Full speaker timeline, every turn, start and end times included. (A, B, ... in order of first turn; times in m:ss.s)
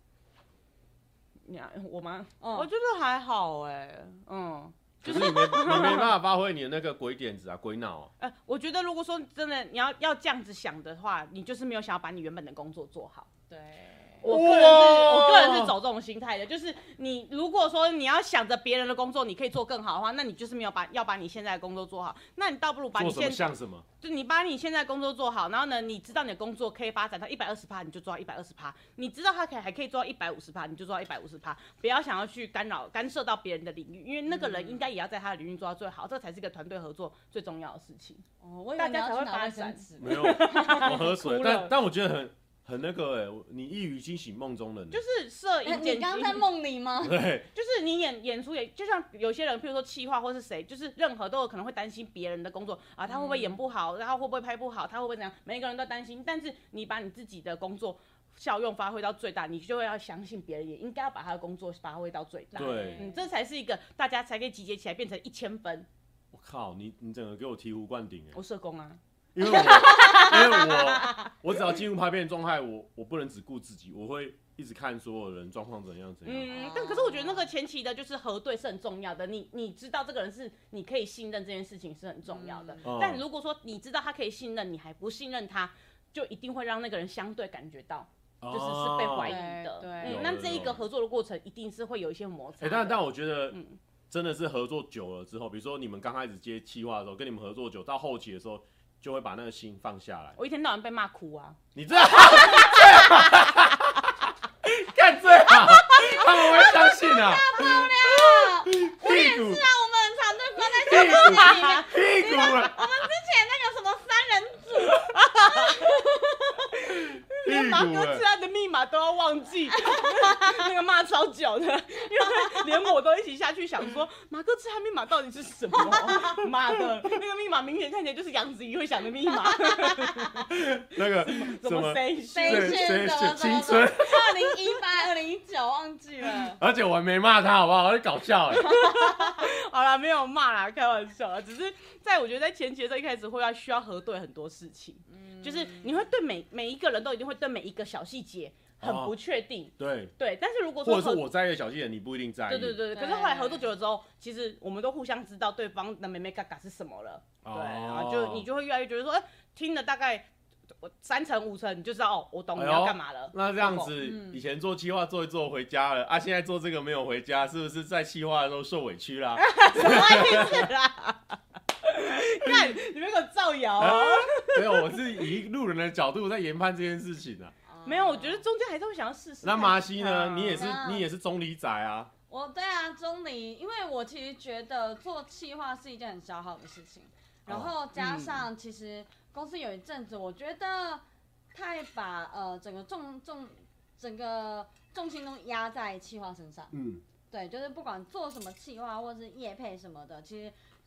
0:01.4-0:06.1 A
0:02.4-0:02.7 B
0:05.0-0:08.1 C
0:08.2-0:13.3 A
0:13.5-0:14.3 B
0:14.2-0:23.5 A
0:14.2-0:15.7 C
0:22.9-0:23.8 C
0:24.0-0:38.2 A
0:34.3-0:34.8 B
0:38.4-0:40.8 B
0:38.8-0:41.7 A
0:40.0-0:45.0 C
0:44.9-0:46.5 A
0:45.6-0:47.2 B
0:47.0-0:47.5 C
0:47.5-1:05.9 A
0:53.1-0:53.6 B
1:02.5-1:03.2 B
1:02.6-1:03.0 C
1:06.3-1:08.4 C
1:08.3-1:11.3 A
1:09.3-1:16.6 C
1:16.2-1:33.8 A
1:16.5-1:17.5 B
1:22.3-1:22.9 B
1:22.8-1:23.2 C
1:28.4-1:29.4 C
1:29.2-1:30.3 B
1:30.0-1:30.8 C
1:32.6-1:33.6 C
1:34.1-1:40.4 C
1:40.4-1:41.6 A
1:41.7-1:49.6 C
1:45.9-1:56.4 B
1:50.8-1:52.8 C
1:51.0-1:51.8 A
1:54.9-1:56.0 A
1:56.6-2:10.5 A
1:57.4-1:58.2 C
1:59.8-2:00.4 B
2:10.4-2:14.5 C
2:11.2-2:13.0 A
2:12.3-2:16.6 B
2:16.6-2:18.8 C
2:18.5-2:31.2 A
2:25.1-2:25.9 B
2:28.8-2:29.1 C
2:29.8-2:30.1 C
2:30.8-2:32.8 C
2:32.5-2:40.3 A
2:32.9-2:33.6 B
2:37.4-2:38.4 C
2:40.8-2:44.4 A
2:42.5-2:50.7 C
2:49.4-2:55.2 A
2:52.4-2:52.8 C
2:53.8-2:57.5 C
2:57.7-2:58.4 B
2:57.8-3:00.8 A
2:59.4-3:02.1 C
3:00.5-3:01.0 B
3:02.3-3:16.7 B
3:07.5-3:07.7 C
3:08.0-3:08.4 A
3:16.7-3:17.0 C
3:17.3-3:20.5 B